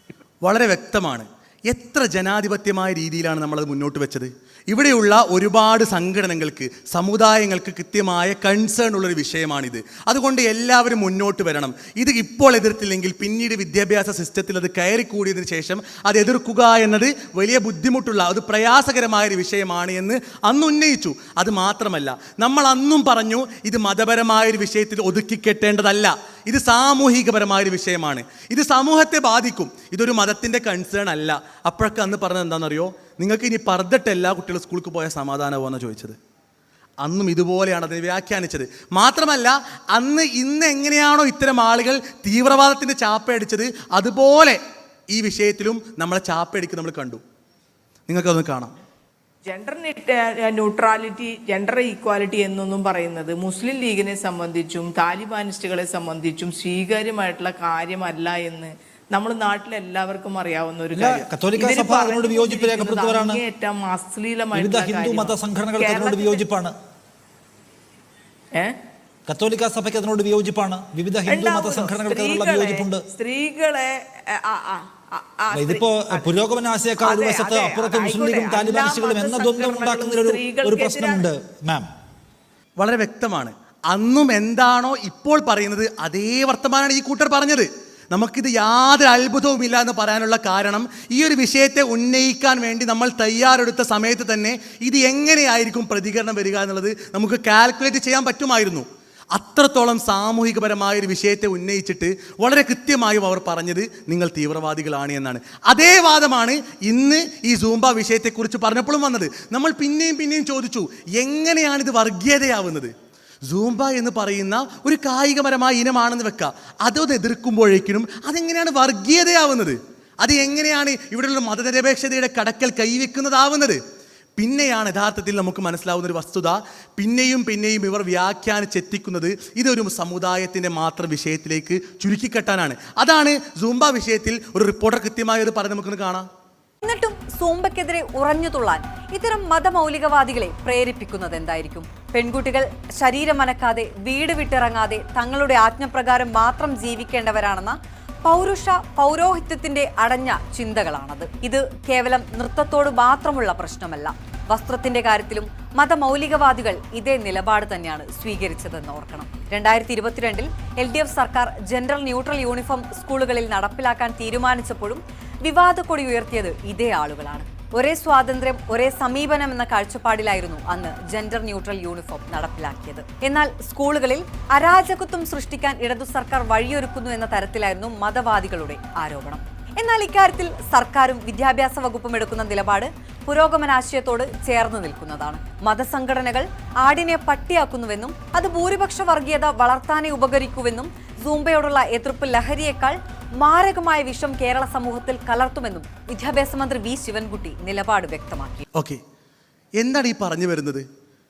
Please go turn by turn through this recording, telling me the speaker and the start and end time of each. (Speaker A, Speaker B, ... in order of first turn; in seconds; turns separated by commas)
Speaker A: 0.4-36.2, Speaker A: 37.0-44.6, Speaker A: 45.1-47.2, Speaker A: 48.1-48.7, Speaker B: 49.5-66.5, Speaker C: 61.0-63.4, Speaker C: 64.6-66.8, Speaker C: 69.3-73.0, Speaker B: 71.3-76.4, Speaker C: 75.5-81.9, Speaker B: 77.0-81.3, Speaker A: 82.8-112.9, Speaker A: 113.5-123.8, Speaker A: 124.4-136.3, Speaker D: 136.8-198.6, Speaker A: 198.8-199.0, Speaker A: 199.8-200.8